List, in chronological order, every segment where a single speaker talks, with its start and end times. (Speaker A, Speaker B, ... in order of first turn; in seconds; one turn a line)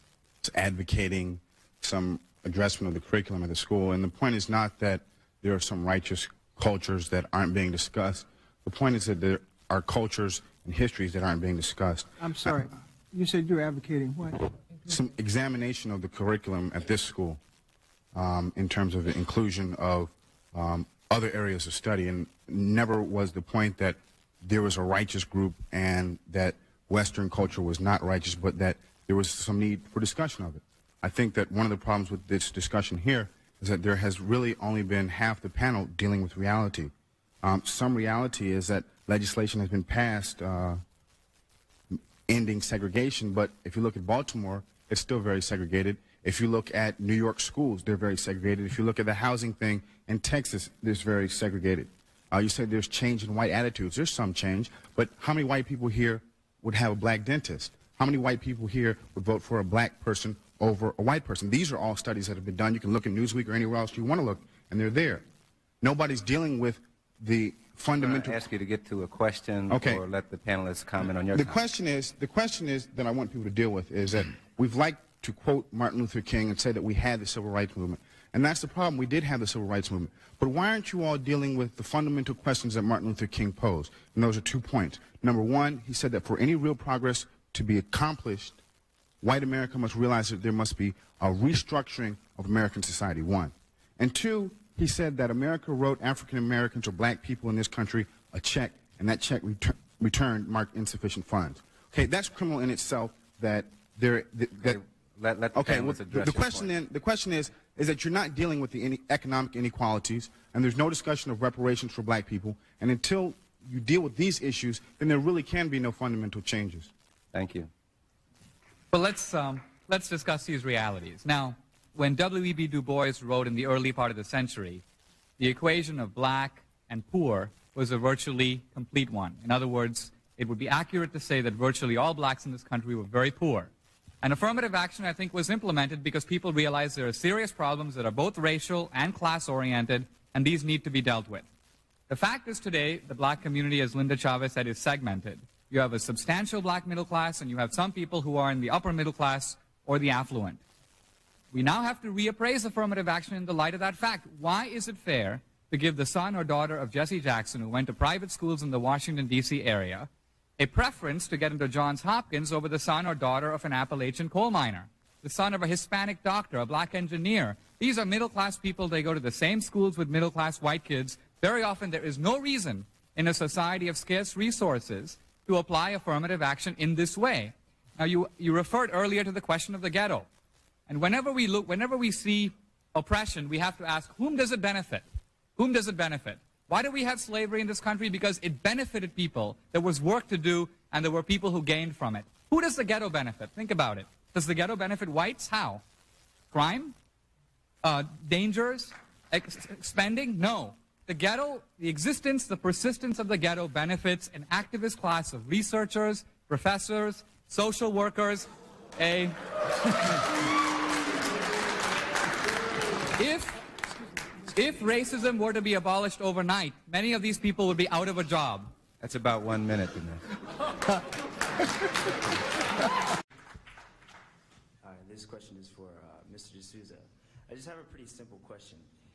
Speaker A: 0.4-12.6
Speaker B: 12.2-14.5
Speaker A: 14.8-17.4
Speaker A: 18.1-40.8
Speaker A: 41.9-65.2
Speaker A: 65.8-68.4
Speaker C: 67.9-71.6
Speaker A: 69.7-70.0
Speaker A: 71.3-88.6
Speaker A: 89.2-104.8
Speaker C: 104.6-106.8
Speaker A: 105.5-116.9
Speaker C: 117.3-117.7
Speaker D: 118.9-124.8
Speaker D: 125.4-141.5
Speaker D: 142.1-150.6
Speaker D: 151.5-180.3
Speaker D: 180.9-195.8
Speaker D: 196.5-197.0
Speaker D: 197.8-210.3
Speaker D: 213.2-213.6
Speaker D: 214.5-218.8
Speaker C: 219.0-220.2
Speaker E: 224.8-228.9